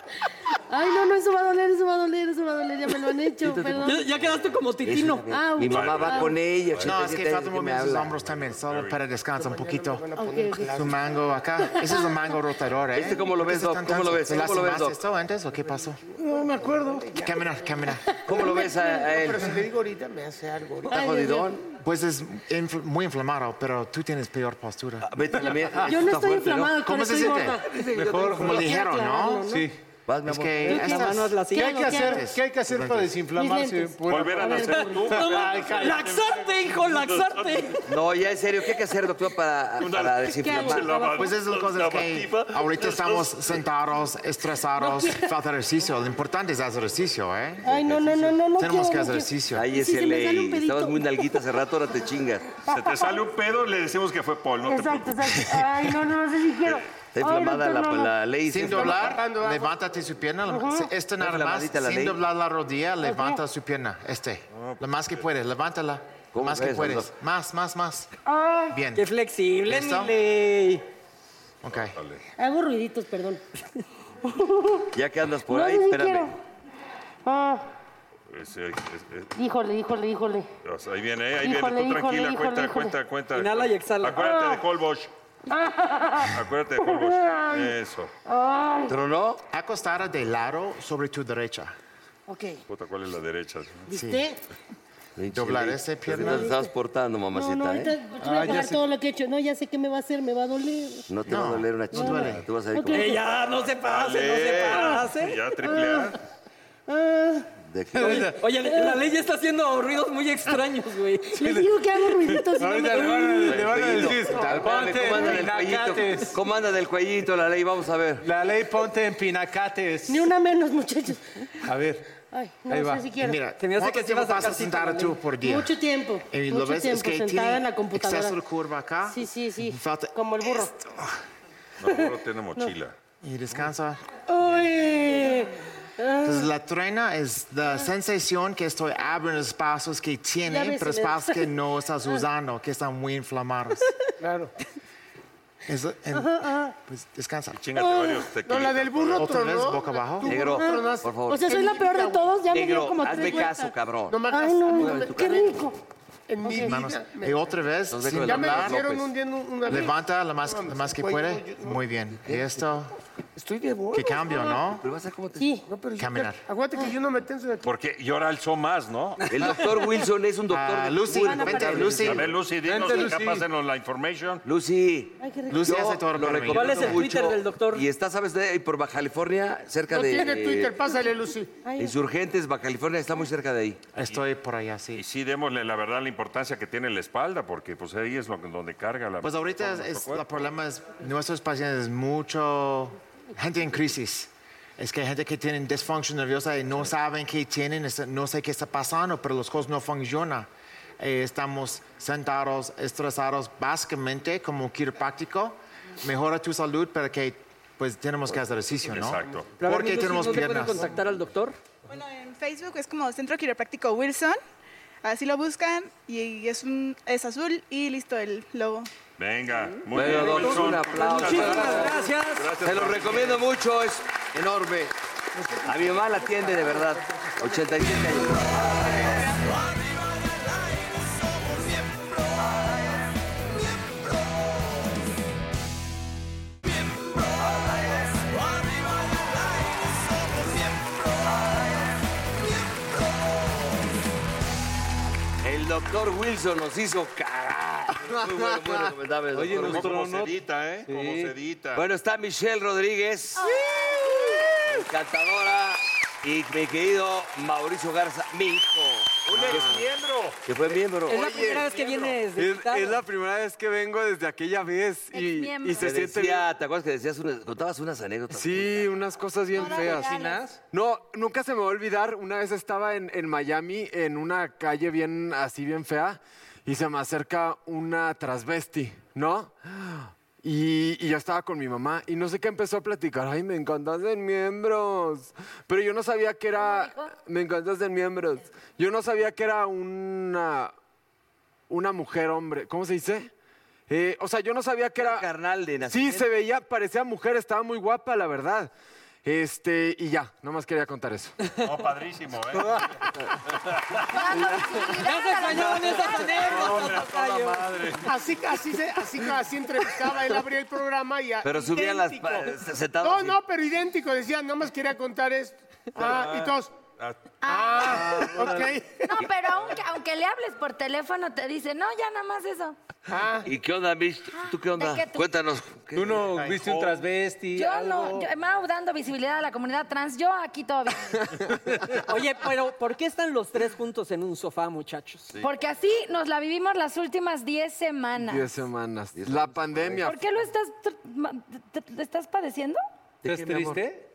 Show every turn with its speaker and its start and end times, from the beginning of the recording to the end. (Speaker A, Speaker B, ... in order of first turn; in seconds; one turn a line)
Speaker A: 0.7-4.0
Speaker B: 3.4-8.1
Speaker C: 3.8-5.2
Speaker A: 5.3-6.3
Speaker D: 5.7-7.2
Speaker E: 6.8-10.1
Speaker D: 8.0-9.0
Speaker F: 9.3-11.2
Speaker A: 10.2-10.8
Speaker E: 10.7-16.0
Speaker A: 11.7-12.0
Speaker B: 12.9-15.0
Speaker G: 16.2-17.1
Speaker F: 16.2-17.5
Speaker E: 17.2-18.2
Speaker B: 18.2-19.5
Speaker A: 18.3-19.1
Speaker F: 18.3-21.0
Speaker B: 20.9-21.7
Speaker A: 20.9-21.5
Speaker E: 21.8-25.1
Speaker B: 25.0-28.7
Speaker A: 25.8-27.7
Speaker E: 26.8-27.6
Speaker G: 27.9-28.5
Speaker E: 28.3-29.5
Speaker A: 28.4-29.7
Speaker G: 29.4-29.8
Speaker B: 30.1-31.1
Speaker E: 30.2-31.4
Speaker C: 30.6-32.1
Speaker G: 31.4-36.2
Speaker A: 31.5-32.2
Speaker E: 32.0-33.2
Speaker A: 33.3-35.4
Speaker D: 34.1-37.7
Speaker C: 35.0-37.9
Speaker B: 37.9-41.0
Speaker D: 39.8-43.6
Speaker A: 40.4-41.3
Speaker E: 41.1-47.8
Speaker A: 44.8-45.3
Speaker A: 47.6-51.4
Speaker E: 48.5-49.7
Speaker B: 49.5-52.5
Speaker A: 52.6-53.2
Speaker D: 52.6-55.6
Speaker A: 54.6-58.1
Speaker B: 57.1-59.2
Speaker E: 58.5-68.1
Speaker F: 58.6-59.7
Speaker A: 60.5-60.9
Speaker B: 61.2-62.2
Speaker A: 63.0-63.4
Speaker D: 64.5-65.2
Speaker B: 66.3-67.1
Speaker A: 68.2-68.8
Speaker E: 68.7-69.1
Speaker C: 68.9-70.8
Speaker E: 69.7-70.1
Speaker E: 71.6-72.0
Speaker D: 71.7-72.2
Speaker A: 72.4-73.4
Speaker A: 74.2-74.8
Speaker B: 74.9-76.3
Speaker A: 75.5-76.3
Speaker A: 77.2-77.7
Speaker D: 78.3-79.3
Speaker A: 79.3-80.5
Speaker D: 80.6-85.1
Speaker A: 81.4-83.0
Speaker C: 83.3-84.3
Speaker A: 84.2-84.6
Speaker A: 85.5-87.7
Speaker D: 86.3-88.1
Speaker A: 88.3-88.9
Speaker B: 88.9-89.4
Speaker E: 89.5-91.7
Speaker A: 92.3-92.6
Speaker D: 92.7-93.9
Speaker A: 93.9-94.4
Speaker E: 93.9-94.2
Speaker B: 95.2-98.0
Speaker E: 95.3-96.5
Speaker A: 96.2-96.7
Speaker A: 97.3-101.1
Speaker G: 98.2-98.8
Speaker B: 101.1-103.2
Speaker E: 101.3-102.5
Speaker A: 101.9-103.2
Speaker C: 102.9-105.4
Speaker D: 103.5-106.2
Speaker A: 105.6-106.1
Speaker A: 106.9-107.5
Speaker B: 107.7-108.3
Speaker G: 108.0-108.3
Speaker C: 108.0-111.4
Speaker A: 108.7-108.9
Speaker A: 111.3-113.5
Speaker G: 112.3-116.3
Speaker B: 113.4-118.3
Speaker E: 114.3-114.8
Speaker G: 118.2-120.3
Speaker A: 120.1-121.5
Speaker G: 121.6-122.0
Speaker A: 122.3-123.4
Speaker G: 122.7-123.1
Speaker E: 123.2-125.7
Speaker C: 123.6-125.2
Speaker A: 125.4-128.4
Speaker E: 126.3-130.1
Speaker A: 129.0-130.7
Speaker D: 131.8-132.9
Speaker E: 133.2-134.0
Speaker A: 134.3-136.5
Speaker E: 136.2-143.8
Speaker A: 140.4-141.5
Speaker F: 144.2-144.5
Speaker E: 145.7-147.6
Speaker A: 146.1-146.7
Speaker D: 147.5-149.5
Speaker A: 147.8-148.2
Speaker F: 148.4-152.3
Speaker E: 149.2-150.4
Speaker B: 150.2-151.6
Speaker A: 150.4-153.7
Speaker B: 152.5-155.5
Speaker F: 154.1-155.5
Speaker A: 154.3-155.8
Speaker F: 156.3-157.6
Speaker A: 156.4-156.8
Speaker E: 156.5-158.8
Speaker B: 157.9-159.1
Speaker F: 158.2-161.8
Speaker E: 159.7-162.9
Speaker B: 162.2-162.6
Speaker F: 163.3-164.6
Speaker E: 163.9-164.8
Speaker A: 164.3-164.6
Speaker B: 164.8-165.5
Speaker A: 165.4-165.6
Speaker F: 165.7-167.7
Speaker E: 166.0-166.4
Speaker D: 167.6-169.6
Speaker B: 169.3-172.3
Speaker E: 170.5-172.3
Speaker A: 171.2-172.2
Speaker D: 171.9-174.4
Speaker G: 172.5-173.5
Speaker A: 172.8-173.1
Speaker B: 174.4-180.7
Speaker A: 175.2-175.7
Speaker E: 175.5-177.0
Speaker C: 176.5-177.8
Speaker F: 179.9-181.5
Speaker A: 181.6-181.9
Speaker B: 181.8-183.8
Speaker E: 183.9-185.0
Speaker D: 184.9-190.5
Speaker E: 189.2-200.5
Speaker E: 201.0-210.9
Speaker D: 208.9-209.6
Speaker C: 209.6-211.6
Speaker H: 211.9-214.4
Speaker H: 215.0-218.9
Speaker D: 219.2-223.5
Speaker B: 219.9-222.0
Speaker C: 220.0-222.5
Speaker B: 222.6-224.9
Speaker B: 225.6-229.2
Speaker B: 245.4-250.0
Speaker G: 249.3-251.3
Speaker D: 249.6-251.8
Speaker B: 251.7-253.5
Speaker B: 254.6-259.9
Speaker D: 259.3-260.4
Speaker I: 259.4-259.9
Speaker B: 260.4-261.6
Speaker C: 261.1-263.0
Speaker I: 261.1-266.4
Speaker J: 265.1-265.9
Speaker B: 265.8-268.9
Speaker I: 268.3-270.1
Speaker J: 269.5-270.4
Speaker G: 269.5-270.6
Speaker I: 270.7-290.7
Speaker J: 286.5-287.1
Speaker I: 291.7-293.3
Speaker I: 293.9-295.2
Speaker B: 294.9-296.4
Speaker I: 295.8-298.7
Speaker I: 299.2-301.4
Speaker D: 301.6-304.8
Speaker J: 304.1-306.7
Speaker C: 304.4-307.9
Speaker D: 305.5-308.1
Speaker F: 308.1-316.7
Speaker B: 311.4-313.4
Speaker D: 316.0-317.2
Speaker J: 317.4-318.4
Speaker F: 317.4-319.2
Speaker D: 317.8-318.5
Speaker J: 319.1-322.7
Speaker F: 323.1-323.5
Speaker B: 323.4-326.4
Speaker J: 324.3-325.2
Speaker G: 325.9-328.3
Speaker J: 327.5-331.3
Speaker I: 331.2-331.5
Speaker C: 332.0-335.3
Speaker J: 335.4-338.5
Speaker I: 338.2-340.2
Speaker B: 339.1-340.2
Speaker J: 340.0-342.8
Speaker B: 343.2-343.8
Speaker G: 343.2-344.0